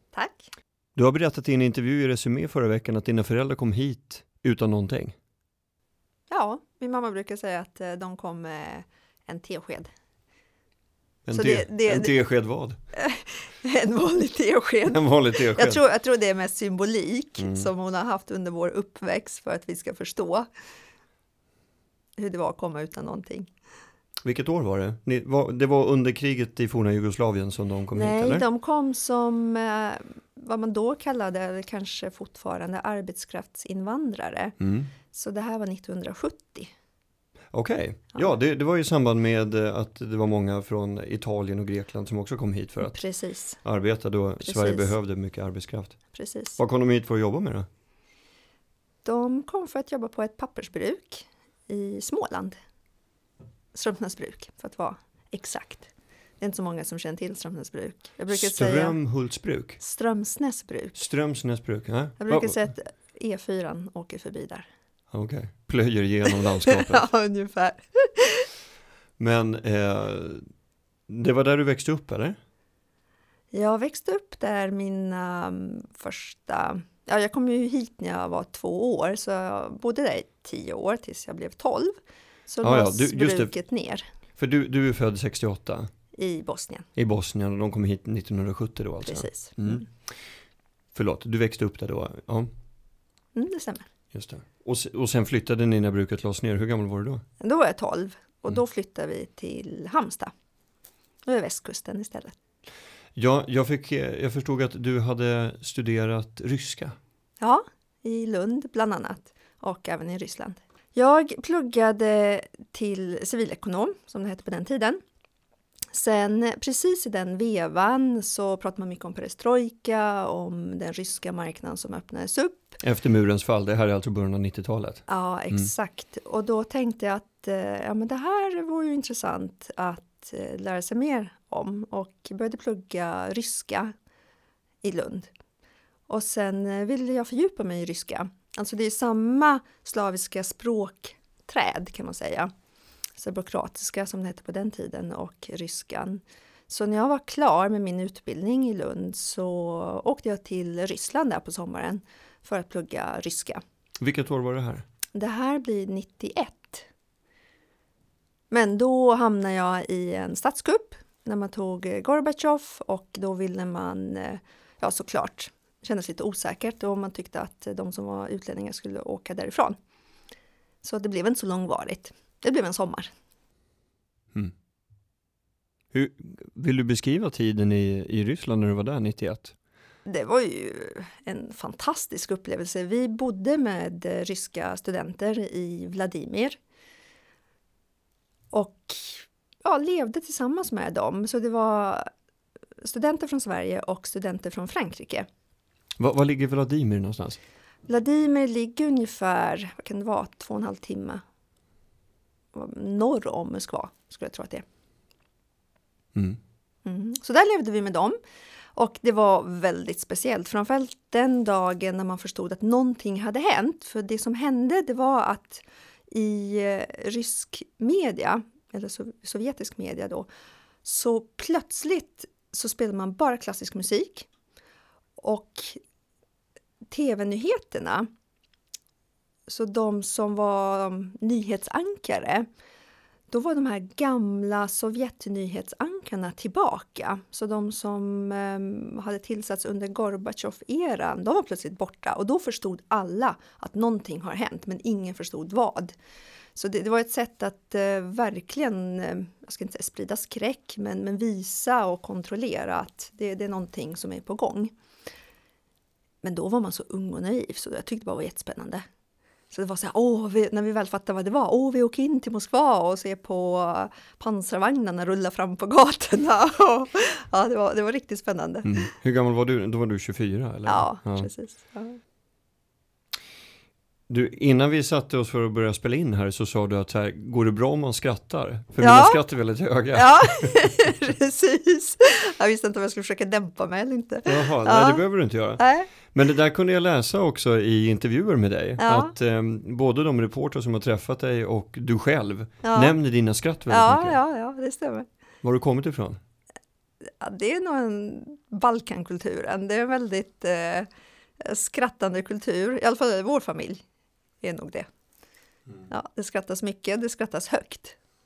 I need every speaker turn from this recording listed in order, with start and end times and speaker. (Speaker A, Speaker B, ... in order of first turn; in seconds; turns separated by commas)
Speaker A: 0.1-0.5, Speaker B: 1.0-5.2, Speaker A: 6.3-9.9, Speaker B: 11.3-12.8, Speaker A: 11.3-12.2, Speaker A: 12.9-20.5, Speaker B: 14.9-15.8, Speaker B: 17.4-17.7, Speaker A: 22.2-23.5, Speaker B: 24.2-28.4, Speaker A: 27.9-34.6, Speaker B: 34.6-34.9, Speaker A: 35.1-36.7, Speaker B: 37.5-43.0, Speaker A: 42.8-43.6, Speaker B: 43.6-46.0, Speaker A: 44.4-44.9, Speaker A: 46.1-46.6, Speaker B: 46.6-47.7, Speaker A: 49.0-52.6, Speaker A: 53.7-55.9, Speaker A: 56.4-59.0, Speaker B: 58.3-59.8, Speaker A: 59.8-61.0, Speaker B: 61.0-62.6, Speaker A: 62.2-64.7, Speaker B: 65.1-67.1, Speaker A: 66.7-68.5, Speaker B: 69.2-70.5, Speaker B: 71.1-72.4, Speaker A: 73.5-82.0, Speaker A: 82.5-84.1, Speaker B: 82.6-83.5, Speaker B: 84.4-85.9, Speaker A: 86.1-86.9, Speaker B: 87.0-89.9, Speaker A: 89.0-89.9, Speaker B: 90.9-92.5, Speaker A: 93.3-93.9, Speaker B: 94.1-97.2, Speaker A: 97.4-100.3, Speaker A: 101.3-102.4, Speaker B: 103.2-107.0, Speaker A: 107.4-115.0, Speaker A: 115.9-122.8, Speaker B: 122.8-125.7, Speaker A: 125.1-133.9, Speaker A: 134.8-135.3, Speaker A: 136.1-142.5, Speaker A: 143.2-153.6, Speaker B: 154.0-154.8, Speaker A: 155.2-156.9, Speaker A: 158.5-169.8, Speaker A: 170.8-173.1, Speaker B: 175.9-179.6, Speaker A: 180.1-186.6, Speaker A: 188.5-192.1, Speaker A: 192.8-195.3, Speaker B: 196.0-197.4, Speaker A: 197.9-201.2, Speaker A: 202.5-204.7, Speaker A: 206.8-208.2, Speaker A: 208.8-220.3, Speaker A: 220.8-224.3, Speaker A: 225.2-225.8, Speaker A: 226.9-228.1, Speaker A: 229.5-232.5, Speaker A: 233.3-246.0, Speaker A: 246.6-254.7, Speaker A: 256.2-258.8, Speaker A: 259.5-268.9, Speaker B: 268.6-271.3, Speaker A: 270.7-272.0, Speaker B: 274.1-280.5, Speaker A: 278.8-279.2, Speaker A: 279.9-285.0, Speaker B: 284.3-294.2, Speaker A: 285.6-285.9, Speaker A: 288.8-289.1, Speaker A: 292.6-292.9, Speaker A: 293.7-295.1, Speaker B: 295.4-296.2, Speaker A: 297.1-300.9, Speaker A: 301.4-303.8, Speaker A: 304.4-304.9, Speaker A: 305.9-308.0